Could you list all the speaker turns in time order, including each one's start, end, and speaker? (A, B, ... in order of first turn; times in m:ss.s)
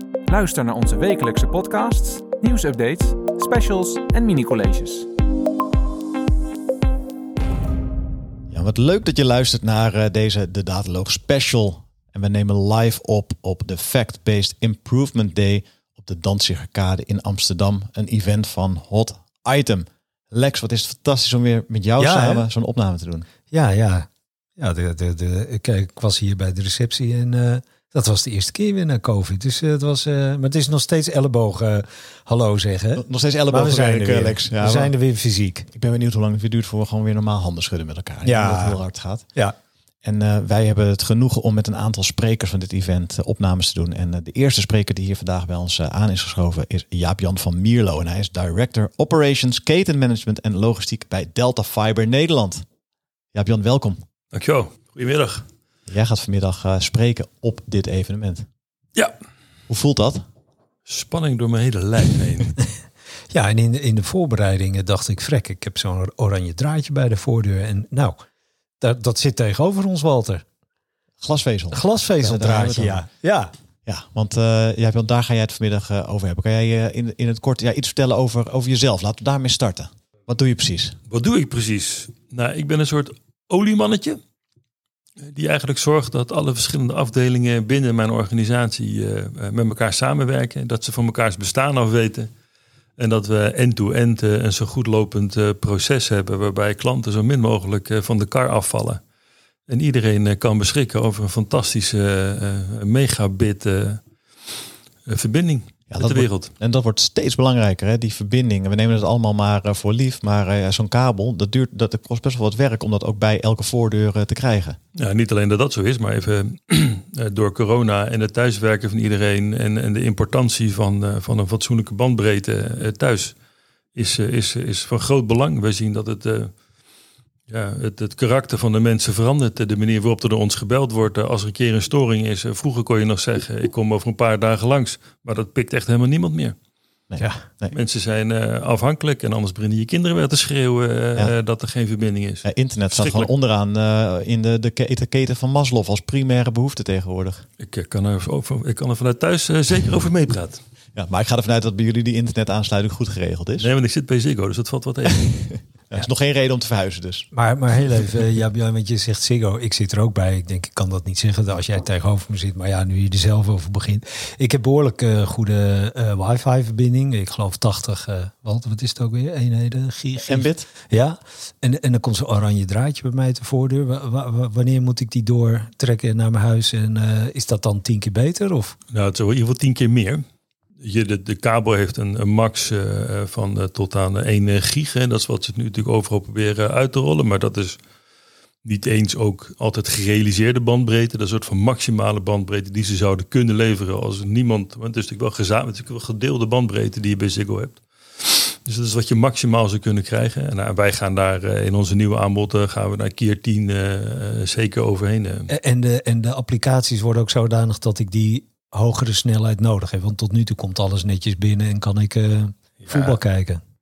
0:00.3-0:05.1 A
0:08.5-0:23.3 B
0:22.0-0:22.5 C
0:23.5-0:35.7 C
0:33.0-0:35.0 B
0:35.7-0:39.3 B
0:38.2-0:38.8 C
0:40.0-0:52.6 B
0:53.3-0:54.0 B
0:54.3-0:55.5 D
0:55.9-0:58.5 B
0:59.7-1:00.2 B
1:00.9-1:02.6 D
1:03.3-1:08.2 C
1:08.8-1:10.4 C
1:11.2-1:13.0 B
1:11.7-1:13.5 C
1:13.9-1:21.0 B
1:21.1-1:24.2 D
1:25.2-1:32.3 D
1:33.0-1:39.0 D
1:39.7-1:44.0 D
1:45.1-1:46.5 D
1:45.9-1:54.8 B
1:55.0-2:03.4 D
2:04.0-2:06.5 D
2:07.5-2:16.6 D
2:17.1-2:17.7 B
2:17.7-2:23.3 D
2:22.4-2:27.4 B
2:27.6-2:30.6 D
2:30.9-2:33.7 B
2:33.6-2:35.5 D
2:35.9-2:37.3 B
2:37.3-2:58.8 C
2:50.3-2:50.7 B
2:58.9-3:00.2 D
3:00.8-3:07.8 D
3:08.6-3:25.5 D
3:25.5-3:33.6 C
3:32.8-3:33.2 D